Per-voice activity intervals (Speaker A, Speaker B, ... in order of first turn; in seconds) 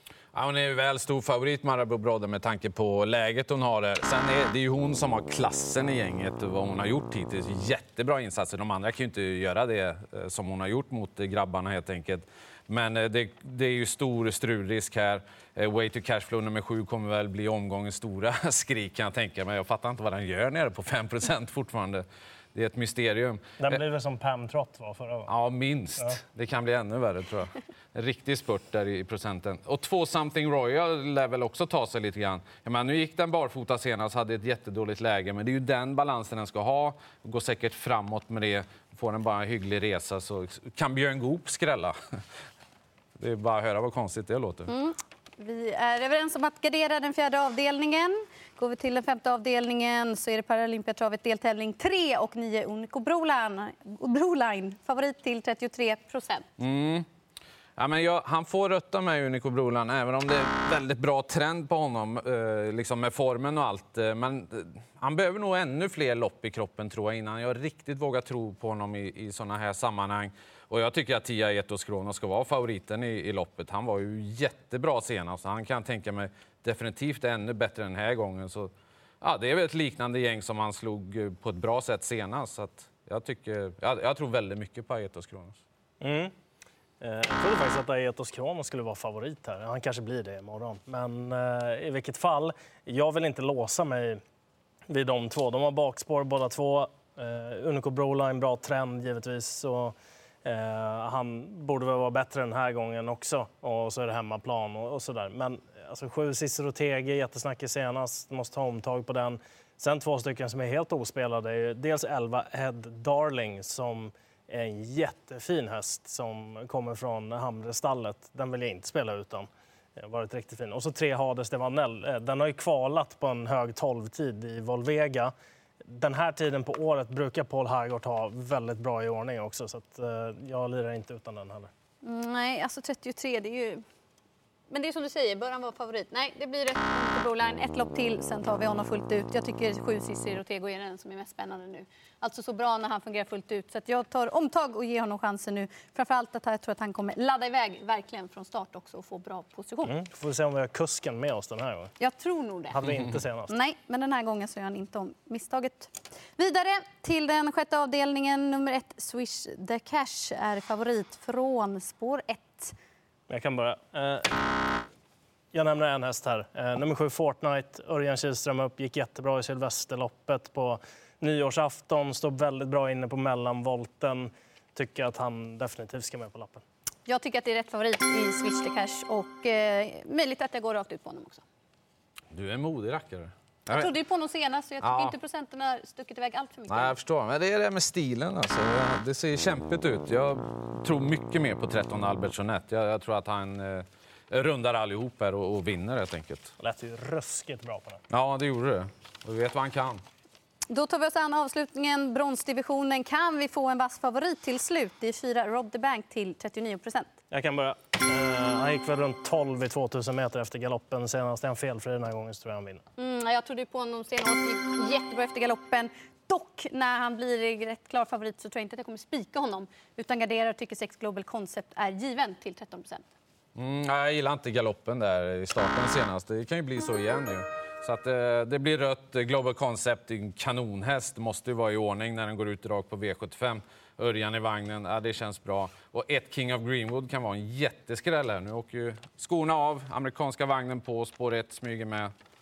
Speaker A: 0.3-23.8, 25.3-42.0, 43.2-44.7, 56.6-57.1, 57.8-85.6, 182.3-183.9, 184.8-185.1, 186.7-196.5, 198.1-200.0, 223.6-242.1
Speaker B: 23.6-25.3, 86.0-86.3, 87.0-94.2, 94.9-125.3, 125.8-131.7, 149.9-151.9, 152.7-153.5, 163.3-164.5, 165.5-176.6, 196.6-198.0, 207.3-212.8
Speaker C: 44.7-56.5, 132.0-133.8, 134.7-149.9, 152.0-152.8, 153.5-162.8, 177.1-181.4, 183.7-186.9, 200.7-207.1, 213.0-223.1